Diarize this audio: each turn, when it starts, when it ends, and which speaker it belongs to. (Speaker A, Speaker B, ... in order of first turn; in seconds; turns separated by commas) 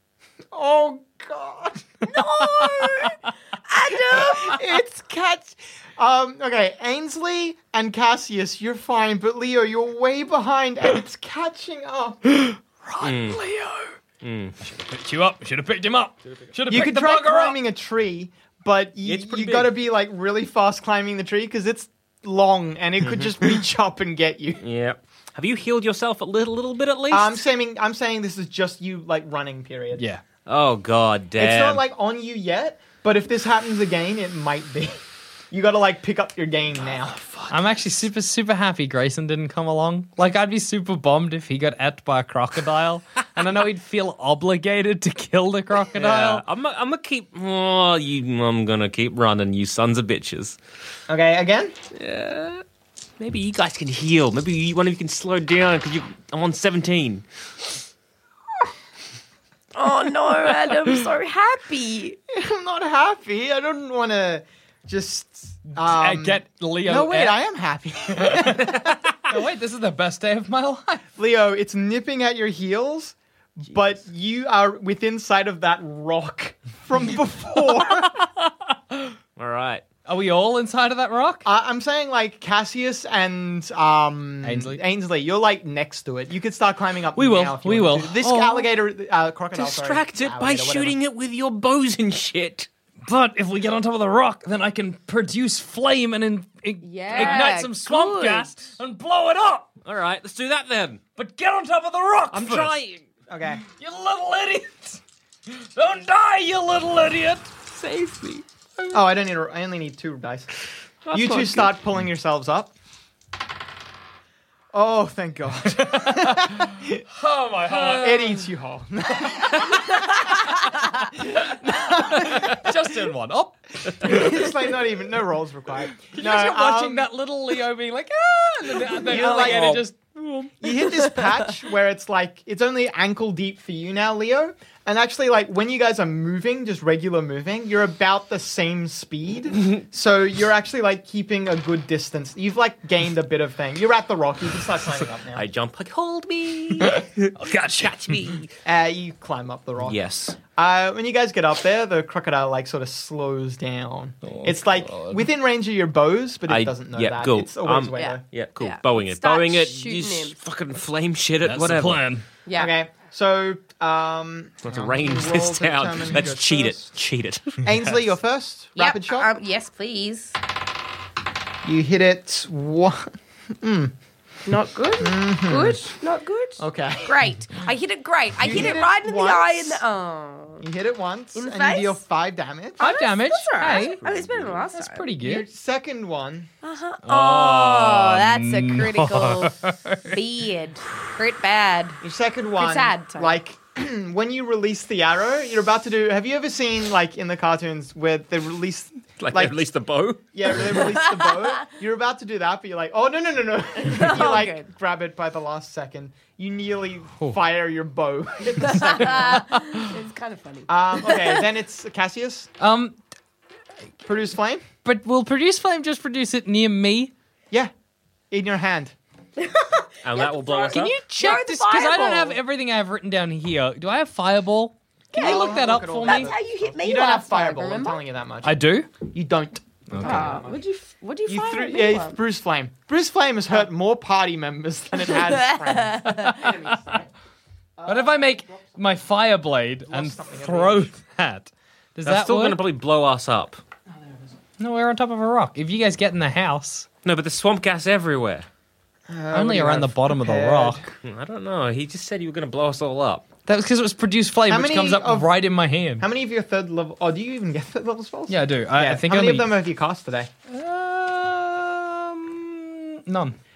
Speaker A: 0.5-1.9, Speaker B: 2.0-4.6, Speaker A: 4.1-12.2, Speaker C: 12.3-13.9, Speaker D: 13.0-13.4, Speaker D: 14.2-14.6, Speaker C: 14.6-17.6, Speaker A: 16.7-24.6, Speaker D: 19.0-19.8, Speaker D: 23.0-23.3, Speaker D: 24.6-27.4, Speaker A: 27.1-30.0, Speaker C: 29.9-30.2, Speaker D: 30.4-31.8, Speaker A: 31.4-35.0, Speaker A: 35.5-37.1, Speaker D: 36.8-37.9, Speaker C: 37.5-46.4, Speaker D: 45.9-50.6, Speaker A: 51.1-51.7, Speaker D: 51.9-52.6, Speaker D: 53.2-57.2, Speaker B: 59.7-62.2, Speaker A: 62.3-69.2, Speaker C: 65.7-67.4, Speaker C: 68.2-71.0, Speaker A: 71.2-78.2, Speaker D: 79.4-79.8, Speaker C: 80.0-81.5, Speaker A: 81.4-91.0, Speaker C: 84.4-84.8, Speaker C: 87.1-88.7, Speaker D: 89.5-92.7, Speaker C: 93.0-99.7, Speaker B: 96.8-98.5, Speaker D: 97.1-97.4, Speaker D: 99.8-101.0, Speaker C: 101.2-102.8, Speaker D: 102.3-103.0, Speaker A: 103.3-103.6, Speaker C: 103.6-107.5, Speaker B: 107.8-108.4, Speaker A: 108.9-110.5, Speaker D: 111.0-111.7, Speaker A: 111.1-112.7, Speaker A: 114.7-117.0, Speaker C: 115.7-118.5, Speaker A: 117.8-122.7, Speaker C: 121.5-124.5, Speaker A: 124.0-127.1, Speaker C: 126.0-130.1, Speaker A: 129.0-129.9, Speaker D: 129.1-129.8, Speaker A: 130.6-145.4, Speaker D: 145.3-148.5, Speaker C: 146.8-148.4, Speaker A: 148.6-150.0, Speaker D: 149.8-150.4, Speaker A: 150.5-158.2, Speaker C: 154.2-155.3, Speaker D: 156.5-162.0, Speaker B: 157.9-160.4, Speaker C: 161.4-162.2, Speaker B: 162.4-162.7, Speaker A: 162.5-166.9, Speaker D: 164.6-167.6, Speaker A: 167.6-169.3, Speaker B: 168.8-170.3, Speaker A: 171.6-173.9, Speaker B: 174.4-180.6, Speaker A: 175.0-175.8, Speaker A: 176.6-177.2, Speaker A: 178.4-179.8, Speaker A: 180.6-182.9, Speaker B: 181.3-182.0, Speaker C: 182.8-184.0, Speaker B: 182.8-185.1, Speaker C: 184.7-185.5, Speaker A: 185.2-186.5, Speaker B: 186.6-192.0, Speaker C: 187.0-190.2, Speaker A: 192.0-199.6, Speaker B: 192.6-193.3, Speaker D: 199.2-200.8, Speaker A: 200.3-209.4, Speaker B: 201.1-201.5, Speaker B: 203.8-204.7, Speaker B: 208.6-211.4, Speaker A: 210.7-212.5, Speaker C: 212.6-213.0, Speaker A: 214.0-214.6, Speaker C: 214.8-217.1, Speaker A: 218.3-218.9, Speaker B: 219.4-222.4, Speaker D: 220.0-221.0, Speaker C: 220.7-226.3, Speaker B: 225.1-228.0, Speaker A: 225.1-230.6, Speaker C: 228.4-228.9, Speaker C: 229.9-230.4, Speaker B: 230.0-232.2, Speaker A: 231.3-237.1, Speaker B: 235.1-236.4, Speaker C: 236.2-236.7, Speaker A: 237.8-238.8, Speaker C: 237.8-242.7, Speaker A: 239.8-240.9, Speaker D: 242.0-243.6, Speaker C: 244.6-246.9, Speaker D: 247.0-248.4, Speaker A: 249.1-250.9, Speaker C: 249.3-250.8, Speaker D: 251.0-253.2, Speaker C: 253.4-256.1, Speaker A: 254.5-255.4, Speaker A: 256.0-260.3, Speaker C: 258.3-259.6, Speaker C: 260.5-263.4